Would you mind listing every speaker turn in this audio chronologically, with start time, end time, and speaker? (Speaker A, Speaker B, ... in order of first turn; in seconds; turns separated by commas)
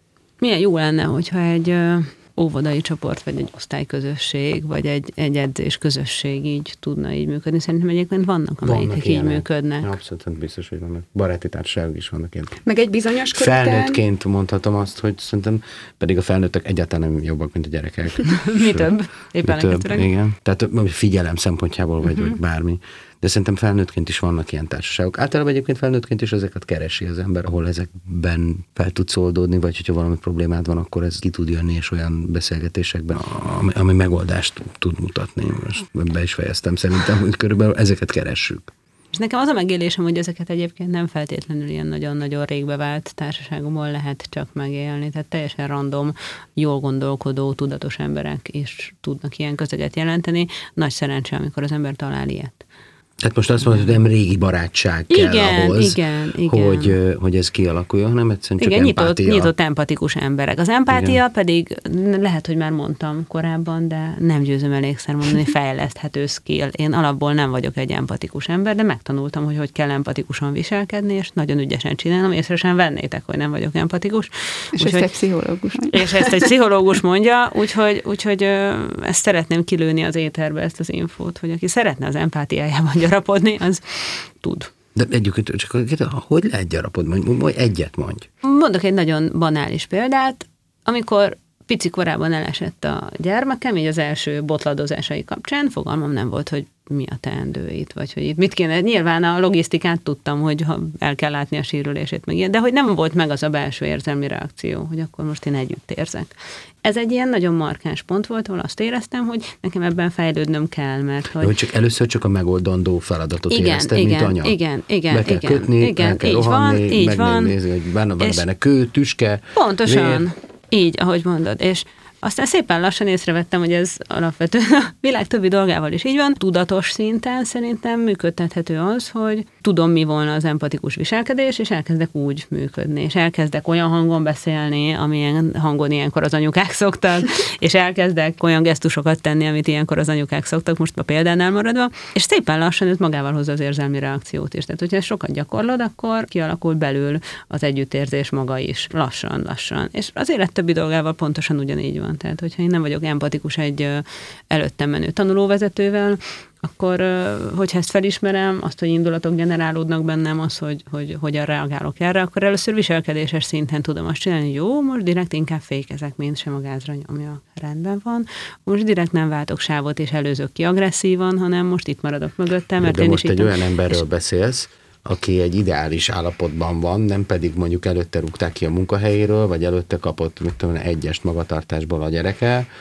Speaker A: 0.4-9.9, Speaker B: 8.6-12.6, Speaker C: 12.6-14.0, Speaker B: 13.3-18.9, Speaker A: 18.2-20.1, Speaker B: 19.4-38.7, Speaker A: 39.1-52.6, Speaker B: 53.2-59.5, Speaker A: 55.1-57.0, Speaker A: 58.6-75.1, Speaker B: 60.9-61.2, Speaker C: 74.8-76.5, Speaker A: 75.9-84.7, Speaker B: 85.0-88.3, Speaker A: 88.4-111.5, Speaker B: 111.4-114.6, Speaker A: 113.5-117.5, Speaker B: 115.1-120.2, Speaker A: 119.5-174.0, Speaker B: 172.8-182.7